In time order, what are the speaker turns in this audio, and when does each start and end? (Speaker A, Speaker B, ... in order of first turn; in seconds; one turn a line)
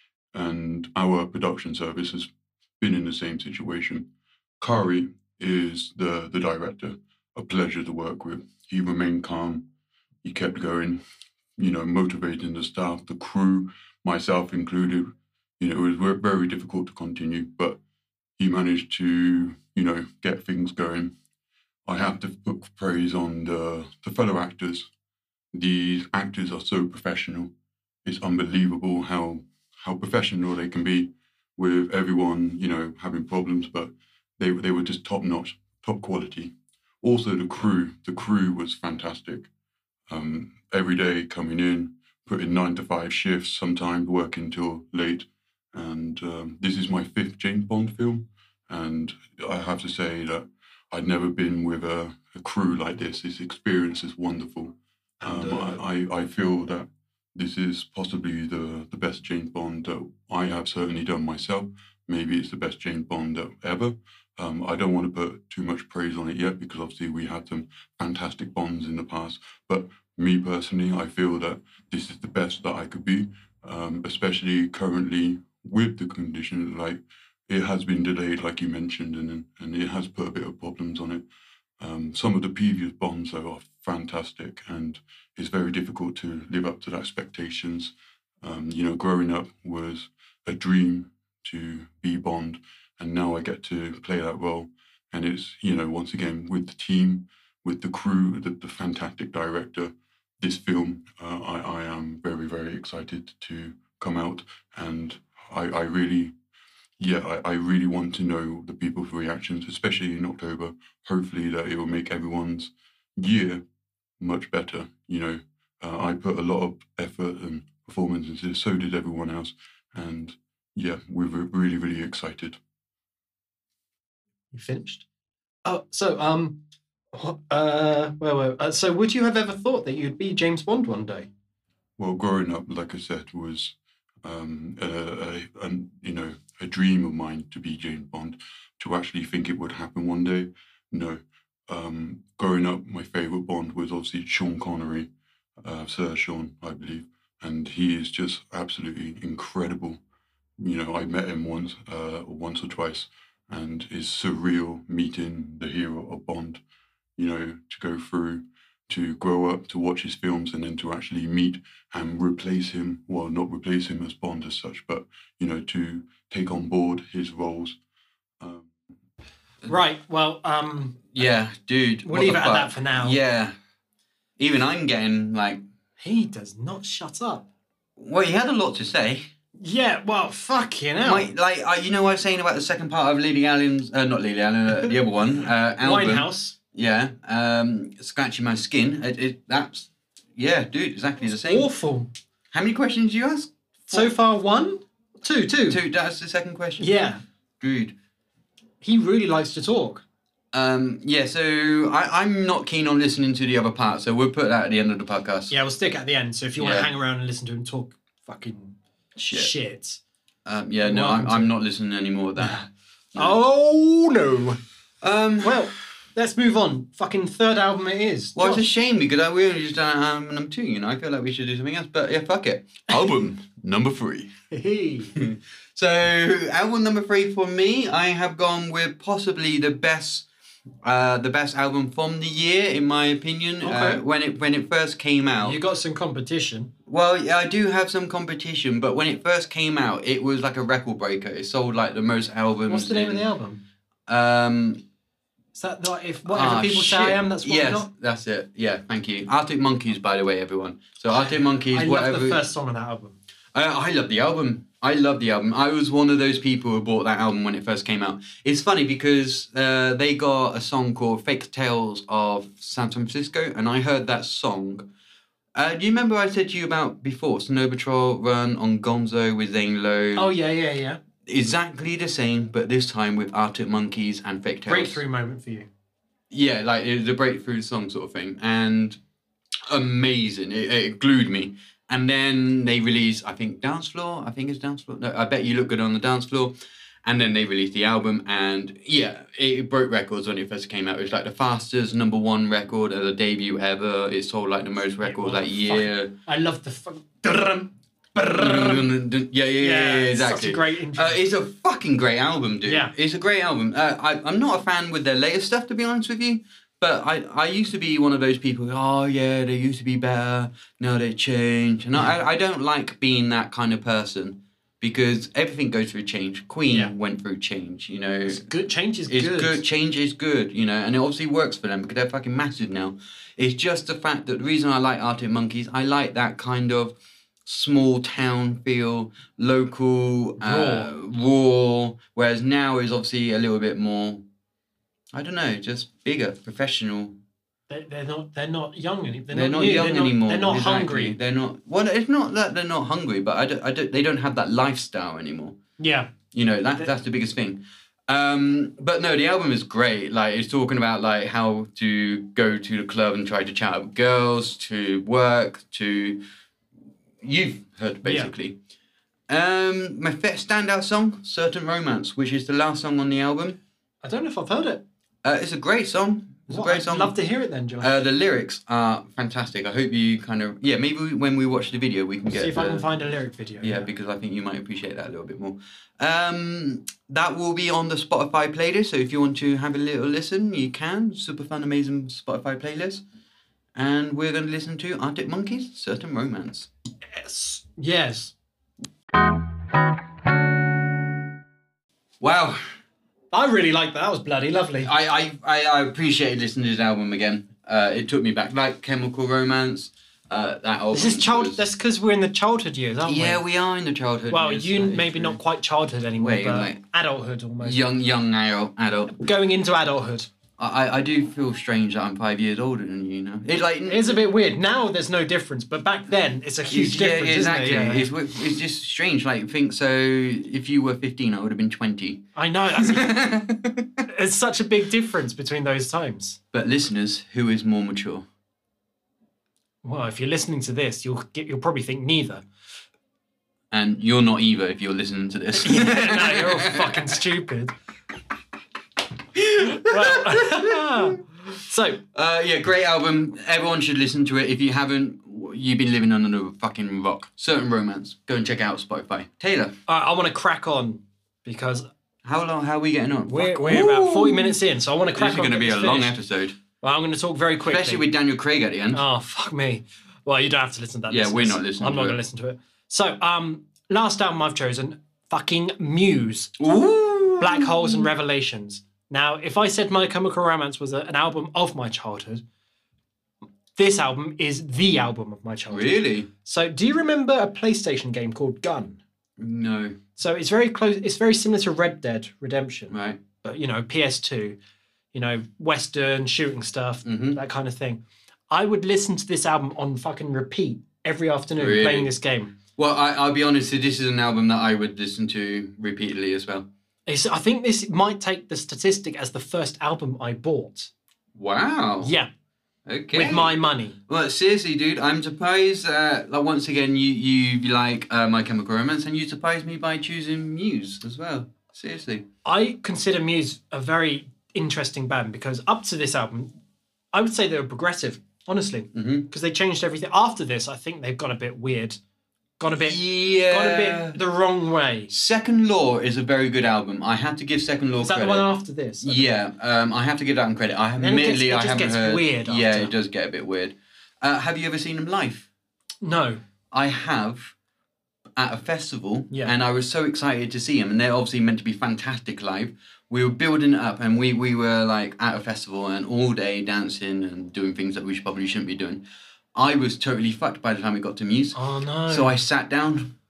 Speaker A: 0.3-2.3
Speaker A: 2.8-4.1
Speaker A: 4.6-9.7
Speaker A: 10.2-11.0
Speaker A: 11.6-17.8
Speaker A: 18.4-21.1
Speaker A: 21.9-24.9
Speaker A: 25.5-27.5
Speaker A: 28.1-39.5
Speaker A: 40.1-81.2
Speaker B: 55.2-55.8
Speaker A: 81.8-106.3
Speaker A: 107.0-113.6
Speaker A: 114.2-122.6
Speaker B: 124.5-125.0
Speaker B: 125.7-126.6
Speaker B: 127.1-131.3
Speaker A: 132.0-145.1
Speaker A: 145.6-150.0
Speaker A: 150.6-156.6
Speaker A: 157.2-167.8
Speaker A: 168.4-168.8
Speaker B: 169.6-171.2
Speaker C: 171.1-173.5
Speaker B: 172.1-173.2
Speaker C: 174.4-175.6
Speaker B: 176.0-177.5
Speaker C: 178.0-179.3
Speaker B: 179.6-181.3
Speaker C: 181.0-191.7
Speaker B: 185.8-186.6
Speaker B: 191.2-192.1
Speaker C: 192.5-194.1
Speaker B: 193.9-195.8
Speaker C: 195.7-196.9
Speaker B: 196.8-197.2
Speaker C: 197.6-197.9
Speaker B: 198.8-200.0
Speaker C: 200.5-205.5
Speaker B: 205.5-210.0
Speaker C: 206.6-206.9
Speaker C: 209.2-209.5
Speaker C: 210.4-212.6
Speaker B: 210.8-211.5
Speaker B: 212.4-214.6
Speaker C: 215.0-215.7
Speaker B: 215.4-218.7
Speaker C: 218.4-224.3
Speaker B: 224.5-225.2
Speaker C: 225.2-230.3
Speaker C: 230.8-235.6
Speaker B: 233.6-234.0
Speaker B: 235.4-236.7
Speaker C: 236.9-243.2
Speaker B: 242.7-243.6
Speaker C: 244.1-244.8
Speaker B: 245.6-247.9
Speaker C: 246.3-252.4
Speaker B: 251.1-253.2
Speaker C: 253.5-264.9
Speaker C: 265.6-270.3
Speaker B: 270.2-271.0
Speaker C: 271.3-275.0
Speaker B: 274.7-275.7
Speaker C: 276.3-279.0
Speaker C: 279.7-286.5
Speaker C: 287.1-296.1
Speaker B: 295.0-298.9
Speaker C: 298.3-318.5
Speaker B: 299.6-301.2
Speaker B: 302.6-302.9
Speaker B: 316.7-316.9
Speaker B: 318.3-319.6
Speaker C: 319.1-334.2
Speaker B: 330.4-330.9
Speaker C: 335.1-337.2
Speaker B: 337.7-341.2
Speaker C: 339.3-345.6
Speaker B: 345.8-346.1
Speaker C: 346.3-356.2
Speaker C: 357.2-358.6
Speaker B: 358.0-358.3
Speaker C: 359.3-363.6
Speaker B: 364.0-364.8
Speaker C: 365.2-367.1
Speaker B: 366.5-368.0
Speaker C: 367.8-372.8
Speaker B: 372.3-373.9
Speaker C: 373.6-383.0
Speaker C: 383.8-386.7
Speaker B: 387.1-388.3
Speaker C: 392.2-392.6
Speaker B: 393.3-394.9
Speaker C: 394.8-401.6
Speaker B: 400.9-403.4
Speaker C: 403.0-405.4
Speaker B: 404.3-407.8
Speaker C: 406.2-406.8
Speaker C: 407.6-409.2
Speaker B: 409.1-410.3
Speaker C: 410.6-414.1
Speaker B: 413.9-418.1
Speaker C: 416.7-423.9
Speaker B: 422.4-423.3
Speaker B: 424.1-426.4
Speaker C: 426.5-428.3
Speaker B: 429.8-432.4
Speaker C: 433.7-437.1
Speaker B: 435.6-437.7
Speaker C: 439.4-441.1
Speaker B: 439.6-442.0
Speaker C: 442.1-449.8
Speaker B: 449.9-451.9
Speaker C: 452.2-454.6
Speaker B: 453.3-456.2
Speaker C: 455.1-456.6
Speaker B: 456.8-458.1
Speaker C: 457.6-459.0
Speaker B: 458.9-466.6
Speaker C: 461.1-462.2
Speaker C: 466.6-468.1
Speaker B: 467.4-472.4
Speaker B: 473.8-479.0
Speaker C: 475.7-476.3
Speaker C: 479.4-480.0
Speaker B: 480.2-484.6
Speaker C: 482.9-483.2
Speaker B: 485.1-492.5
Speaker C: 487.1-487.4
Speaker C: 491.6-492.1
Speaker C: 492.8-496.7
Speaker B: 497.1-500.9
Speaker C: 501.4-502.1
Speaker B: 502.0-502.3
Speaker C: 502.9-503.6
Speaker B: 503.1-504.0
Speaker C: 504.1-512.3
Speaker B: 512.5-516.6
Speaker B: 517.1-522.0
Speaker C: 518.9-519.3
Speaker B: 522.6-525.1
Speaker C: 522.8-524.2
Speaker C: 525.1-528.5
Speaker B: 528.0-529.3
Speaker C: 529.0-535.5
Speaker B: 531.0-532.9
Speaker B: 536.0-536.4
Speaker C: 536.7-537.5
Speaker C: 538.4-549.0
Speaker C: 549.5-551.6
Speaker B: 551.5-552.4
Speaker C: 552.1-553.1